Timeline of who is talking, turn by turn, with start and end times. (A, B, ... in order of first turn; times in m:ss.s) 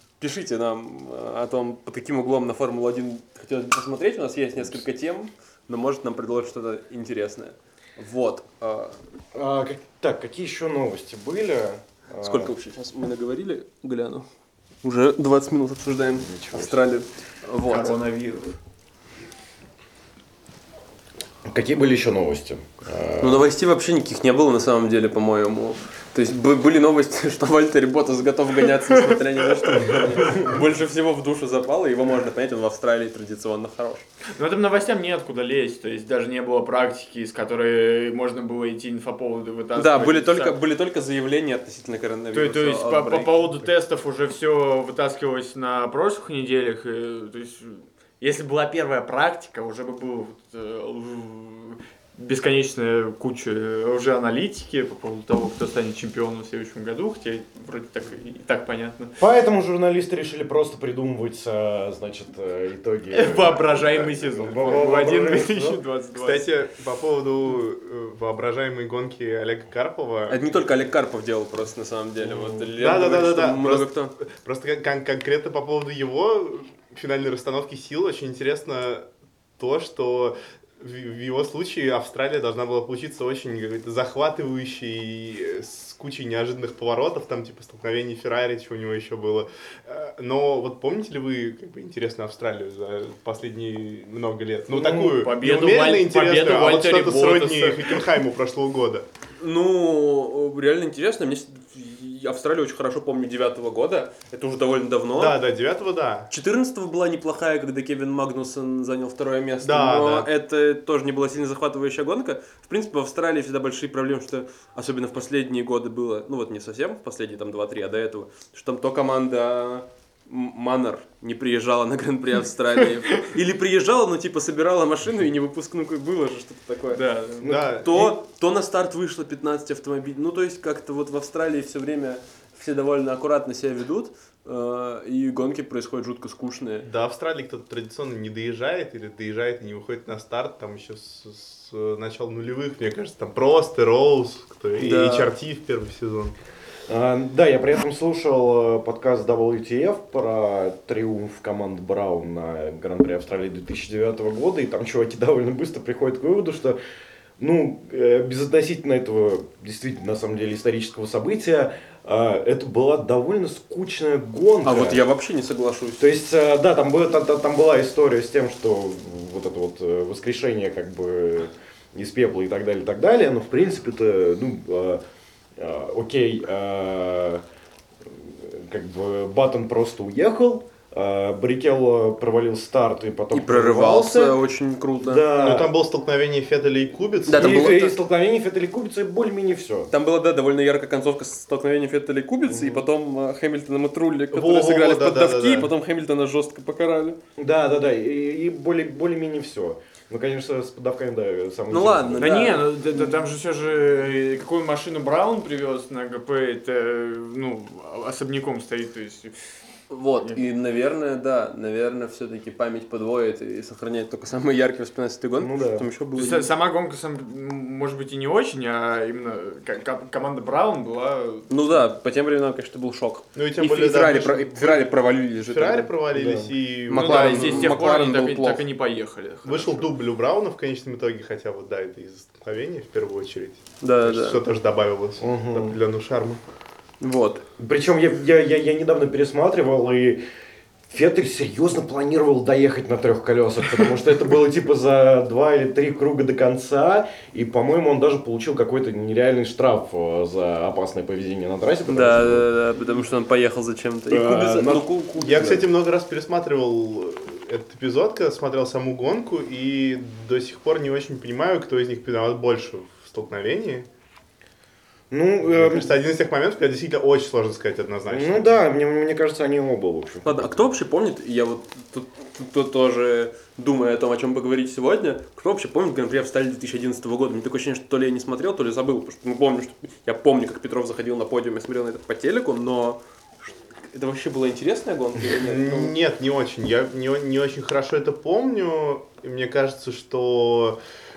0:00.2-0:09.0 A
0:04.6-0:04.8 B
0:09.3-0:12.5 B
0:12.2-0:14.2 A
0:14.8-0:17.9 A
0:16.2-0:16.8 B
0:17.6-0:18.5 C
0:21.4-0:23.5 B
0:23.2-0:34.1 A
0:30.2-0:30.5 B
0:34.4-0:40.5 C
0:39.8-0:43.7 A
0:42.3-0:59.2 C
0:59.2-1:05.8 B
1:03.1-1:06.5 C
1:06.2-1:10.4 D
1:10.3-1:14.1 A
1:12.2-1:19.1 D
1:19.6-1:39.0 D
1:34.7-1:38.0 C
1:39.4-1:45.4 A
1:45.1-1:46.3 D
1:46.3-2:16.9 A
1:49.6-1:50.3 D
2:06.9-2:07.5 C
2:07.4-2:08.2 D
2:07.4-2:07.7 B
2:16.8-2:26.3 D
2:24.8-2:25.3 A
2:26.9-2:36.8 B
2:37.4-2:45.0 B
2:44.6-2:46.1 A
2:46.0-2:55.0 B
2:55.6-2:57.4 B
2:58.0-3:04.4 B
3:03.3-3:05.6 A
3:05.0-3:05.7 B
3:05.4-3:07.8 D
3:07.3-3:08.0 A
3:07.3-3:09.9 B
3:09.9-3:17.2 A
3:12.5-3:12.8 B
3:14.3-3:15.7 D
3:17.4-3:22.5 B
3:21.7-3:23.0 A
3:22.2-3:29.3 C
3:29.9-3:36.5 A
3:35.4-3:35.9 B
3:36.2-3:41.9 C
3:41.5-3:45.9 A
3:43.4-3:44.9 D
3:45.4-3:47.8 D
3:46.1-3:46.5 B
3:46.9-3:48.6 A
3:46.9-3:49.9 C
3:49.4-3:56.4 D
3:53.8-3:54.4 A
3:55.2-3:55.8 B
3:57.0-3:57.4 A
3:57.6-4:00.2 B
4:00.9-4:12.5 B
4:11.9-4:15.6 A
4:14.1-4:15.6 B
4:15.2-4:23.9 D
4:25.1-4:26.0 B
4:25.4-4:28.5 D
4:28.1-4:30.6 B
4:30.2-4:45.9 A
4:45.3-4:50.8 D